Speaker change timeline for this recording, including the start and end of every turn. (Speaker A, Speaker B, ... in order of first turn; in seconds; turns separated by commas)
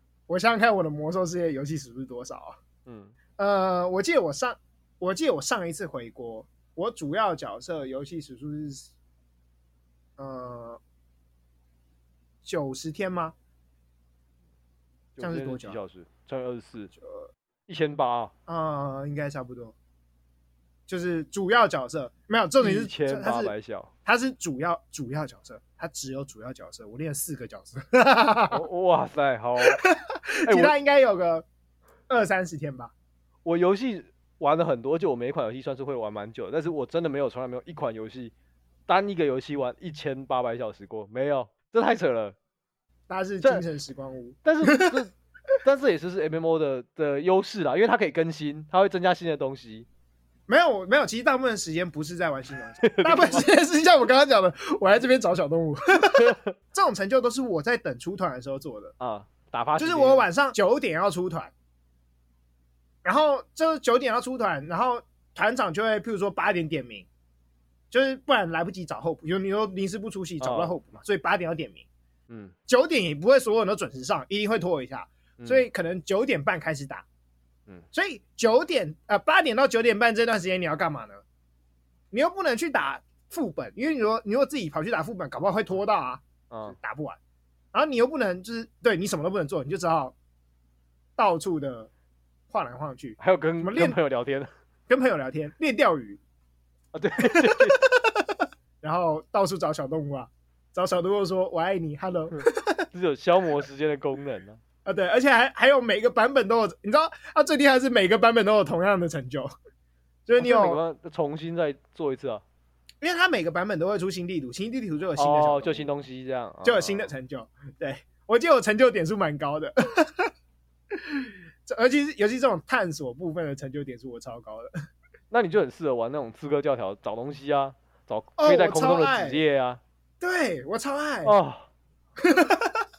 Speaker A: 0.3-2.6, Speaker B: 2.9-3.1, Speaker A: 3.4-8.9, Speaker A: 10.2-10.8, Speaker A: 12.4-13.3, Speaker B: 15.2-16.9, Speaker A: 15.2-15.8, Speaker A: 17.0-17.3, Speaker B: 17.7-18.3, Speaker A: 18.5-19.8, Speaker A: 20.9-23.5, Speaker B: 22.6-23.9, Speaker A: 24.1-28.6, Speaker B: 28.5-29.8, Speaker A: 29.6-31.4, Speaker B: 30.5-30.8, Speaker A: 32.1-32.9, Speaker B: 33.4-38.3, Speaker B: 38.9-42.4, Speaker A: 43.1-45.0, Speaker B: 44.4-45.1, Speaker B: 45.6-49.9, Speaker A: 50.5-58.9, Speaker B: 52.8-53.5, Speaker B: 56.1-56.5, Speaker B: 59.0-60.3, Speaker A: 59.8-61.5, Speaker A: 63.0-67.1, Speaker A: 67.9-71.9, Speaker B: 70.4-70.8, Speaker B: 72.3-72.5, Speaker A: 72.7-77.1, Speaker B: 75.4-75.6, Speaker A: 77.9-81.2, Speaker A: 82.1-87.2, Speaker B: 86.5-86.8, Speaker A: 87.7-90.2, Speaker A: 91.2-91.9, Speaker A: 92.5-94.0, Speaker B: 93.2-94.5, Speaker A: 94.9-96.2, Speaker B: 96.9-97.8, Speaker A: 97.2-102.8, Speaker B: 102.9-104.6, Speaker A: 104.8-109.5, Speaker A: 110.3-110.8, Speaker B: 110.4-112.4, Speaker A: 113.0-115.9, Speaker B: 115.2-117.1, Speaker A: 116.6-120.3, Speaker A: 121.0-124.7, Speaker B: 125.3-129.8, Speaker A: 128.4-129.4, Speaker A: 130.2-131.4, Speaker B: 131.2-131.7, Speaker A: 132.2-132.8